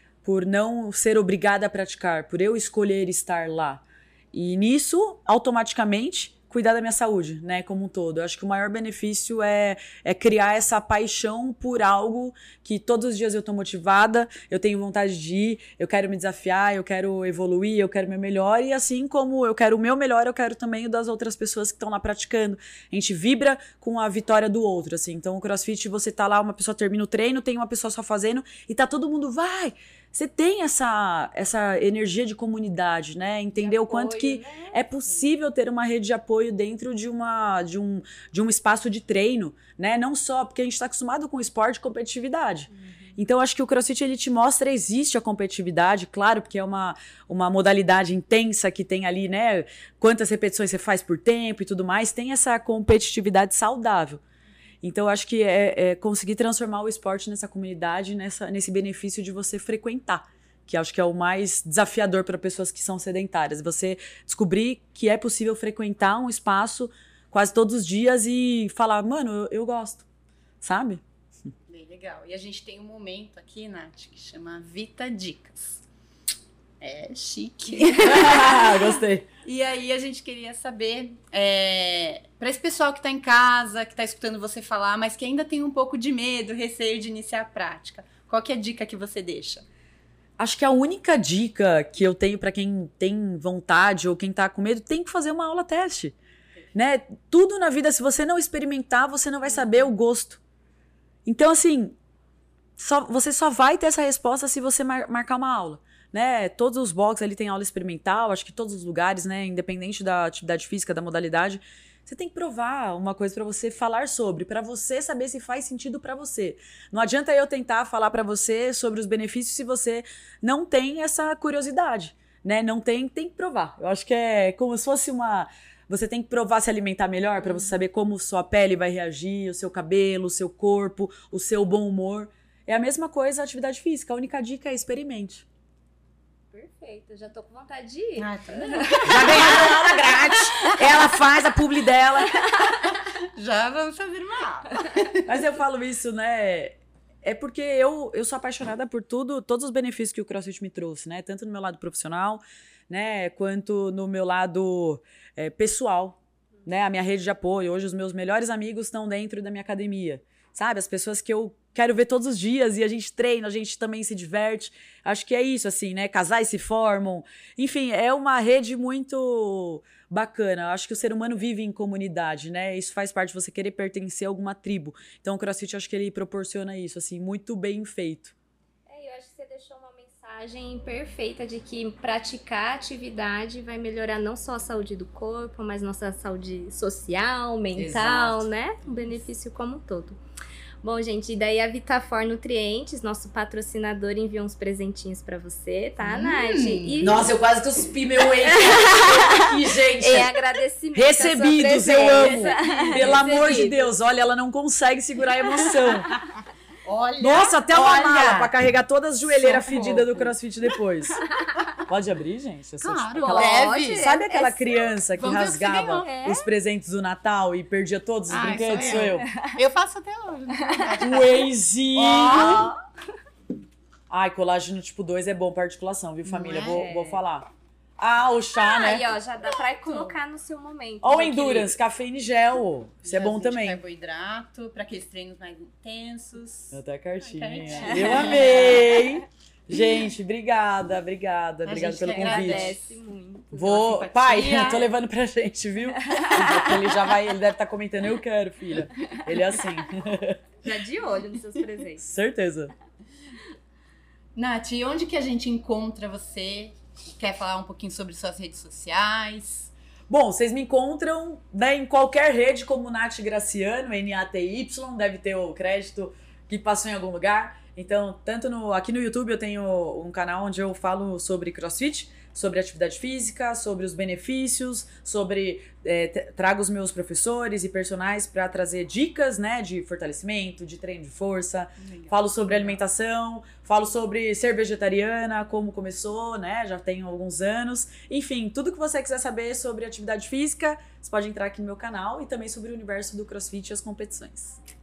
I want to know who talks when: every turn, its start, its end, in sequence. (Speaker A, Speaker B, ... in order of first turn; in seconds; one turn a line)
Speaker A: 0.2-54.2
Speaker B: 33.6-34.9
Speaker B: 42.8-43.1
Speaker A: 54.8-70.0
Speaker A: 70.6-71.0
Speaker C: 71.7-75.8
Speaker C: 76.8-78.8
Speaker B: 77.8-78.2
Speaker A: 78.0-79.2
Speaker C: 79.4-89.6
Speaker A: 90.4-96.1
Speaker A: 96.7-100.4
Speaker A: 101.2-102.0
Speaker A: 102.8-135.4
Speaker B: 136.5-139.7
Speaker C: 138.2-140.8
Speaker A: 139.0-142.4
Speaker C: 142.8-145.3
Speaker A: 145.2-178.3
Speaker B: 178.9-190.2
Speaker A: 187.7-188.5
Speaker B: 190.8-197.3
Speaker C: 196.0-197.0
Speaker A: 197.0-200.4
Speaker B: 198.4-203.8
Speaker A: 200.9-206.2
Speaker C: 202.0-203.3
Speaker C: 206.8-208.5
Speaker A: 207.2-211.2
Speaker C: 209.2-210.3
Speaker A: 211.8-219.3
Speaker C: 212.8-214.1
Speaker B: 213.2-214.9
Speaker C: 215.2-216.1
Speaker B: 216.0-216.5
Speaker C: 218.3-222.7
Speaker B: 218.8-219.6
Speaker B: 220.6-221.0
Speaker A: 221.0-222.7
Speaker B: 222.1-222.8
Speaker A: 224.1-229.1
Speaker C: 226.2-226.8
Speaker B: 226.6-227.2
Speaker B: 228.5-231.7
Speaker C: 229.7-230.1
Speaker A: 231.0-233.8
Speaker C: 233.0-238.9
Speaker A: 236.7-242.8
Speaker B: 237.8-238.9
Speaker C: 241.7-243.0
Speaker B: 242.0-244.0
Speaker A: 243.5-250.4
Speaker C: 243.7-244.9
Speaker B: 246.0-246.8
Speaker B: 250.6-252.0
Speaker A: 252.0-252.7
Speaker C: 254.3-259.7
Speaker A: 260.1-294.6
Speaker C: 281.8-282.8